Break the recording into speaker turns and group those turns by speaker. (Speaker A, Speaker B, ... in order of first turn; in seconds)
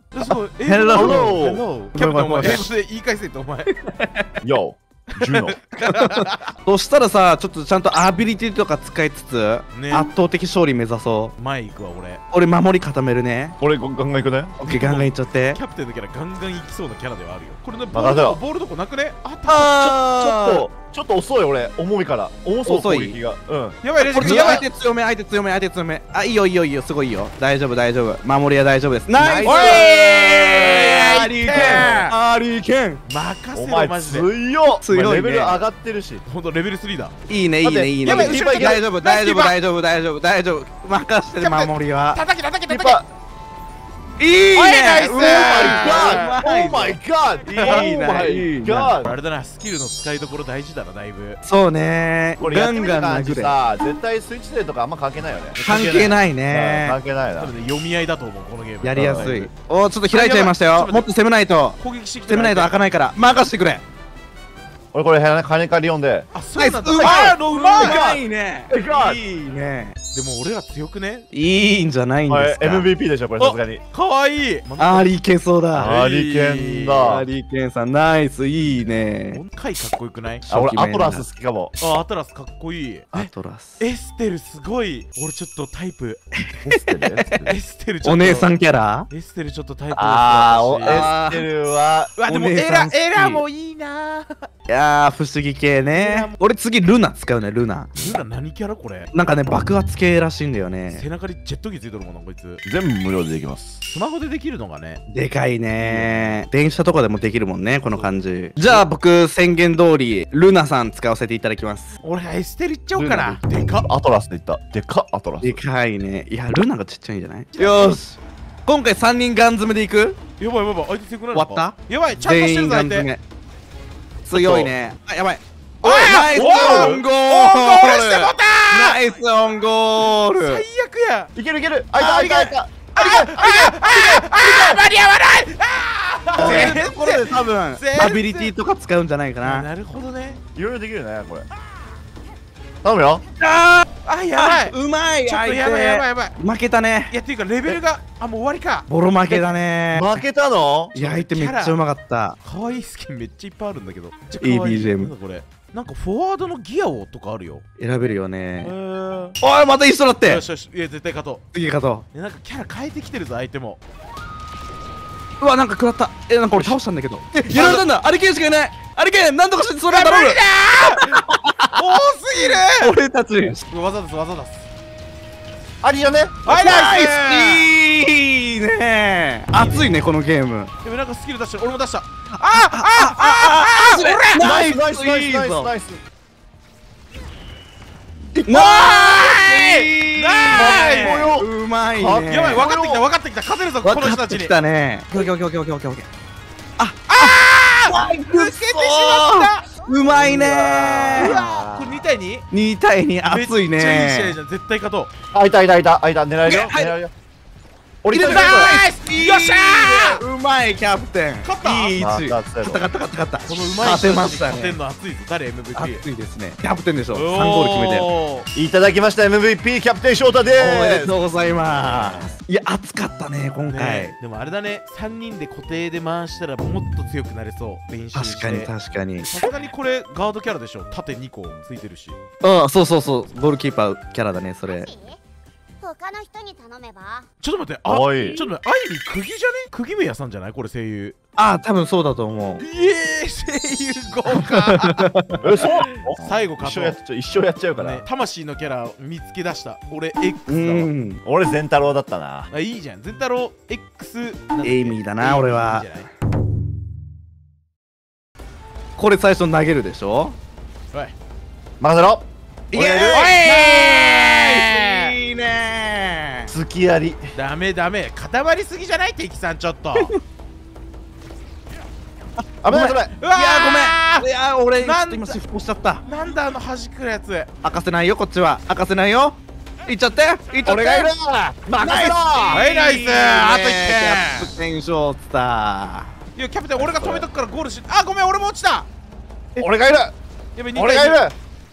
Speaker A: 0.1-3.7, 5.1-6.5, 9.7-10.1, 11.4-12.2, 14.7-19.8, 23.8-24.6, 29.4-32.2, 33.0-34.3, 36.2-37.1, 38.0-39.6, 41.4-43.0, 44.5-46.4, 47.5-47.9, 49.0-51.4, 55.6-56.2, 57.4-59.5, 60.1-61.1, 61.8-62.8, 66.3-68.0, 70.1-71.3, 73.4-75.1, 75.7-77.2, 78.6-80.5, 81.8-86.2, 87.5-88.5, 89.1-91.1, 92.2-94.5, 95.9-96.4, 98.0-99.1, 100.9-102.6, 103.8-105.0, 105.8-106.4, 107.9-108.9, 112.0-113.9, 117.5-118.0, 120.4-123.1, 125.8-129.0, 130.0-131.3, 132.0-132.4, 132.9-138.5, 139.4-140.4, 144.0-146.4, 147.1-149.5, 150.9-151.8, 152.4-157.6, 158.6-159.4, 160.2-161.4, 162.1-163.8, 167.5-167.9, 169.9-172.9, 173.7-174.7, 176.4-177.7, 179.6-180.1, 180.8-184.5, 188.5-191.3, 192.3-194.6, 197.1-202.5, 203.2-205.1, 208.2-210.2, 211.4-212.0, 213.4-216.1, 217.1-218.5, 221.5-222.4, 223.7-228.7, 229.3-232.2, 237.4-241.2, 242.6-247.0, 247.8-250.9, 252.5-256.1, 263.1-265.1, 267.4-270.1, 272.7-274.3, 274.8-275.4, 276.1-277.5, 282.5-284.5, 286.4-288.9, 290.6-291.2
Speaker B: 0.6-1.4, 1.9-2.7, 3.8-4.2, 5.9-11.4, 12.3-13.6, 14.6-15.6, 19.5-20.7, 22.6-23.2, 24.0-33.0, 34.8-35.6, 37.3-42.2, 44.2-49.0, 51.4-53.5, 55.6-57.0, 58.8-63.8, 66.6-70.0, 71.3-72.9, 74.8-76.0, 77.0-79.4, 80.5-81.2, 83.1-83.8, 86.5-87.0, 88.0-89.1, 90.8-91.5, 92.3-93.4, 94.7-97.9, 99.1-101.0, 105.1-111.9, 115.4-120.2, 121.3-123.2, 124.3-130.6, 132.2-132.6, 136.4-139.7, 143.4-147.1, 148.9-150.2, 150.9-152.4, 154.4-155.1, 157.8-158.7, 159.4-160.4, 161.5-162.1, 165.4-171.9, 172.8-173.6, 176.5-180.7, 182.4-185.7, 188.3-192.7, 193.8-196.1, 196.8-201.4, 202.5-204.3, 206.4-206.9, 208.1-214.8, 215.8-218.1, 220.6-224.1, 228.2-229.3, 232.4-234.9, 241.4-242.7, 250.5-251.2, 254.6-256.0, 259.0-260.4, 262.7-266.5, 269.9-270.2, 272.6-276.0, 277.6-281.1, 281.8-286.1
Speaker C: 0.9-1.6, 4.4-5.6, 13.6-14.6, 17.9-18.4, 19.7-24.6, 29.1-32.0, 33.5-36.2, 37.6-38.8, 42.7-43.1, 45.1-49.2, 52.4-55.6, 56.5-57.5, 58.9-59.5, 64.9-66.3, 67.0-69.2, 72.3-73.8, 75.8-77.3, 80.5-81.8, 86.6-87.5, 90.0-92.1, 102.7-103.8, 112.9-115.6, 124.3-124.7, 125.8-127.0, 131.3-134.8, 136.4-136.8, 140.6-141.5, 142.8-143.2, 149.9-150.9, 175.8-176.5, 184.3-186.0, 190.5-193.1, 200.3-202.0, 205.3-207.1, 208.0-208.8, 212.0-212.8, 218.6-221.2, 237.9-238.4, 245.4-248.0, 251.2-252.5, 261.8-263.4, 266.5-267.3, 272.6-273.1, 280.7-282.6, 286.8-287.3, 289.6-290.1, 290.8-291.3
Speaker D: 234.7-235.2, 235.8-237.3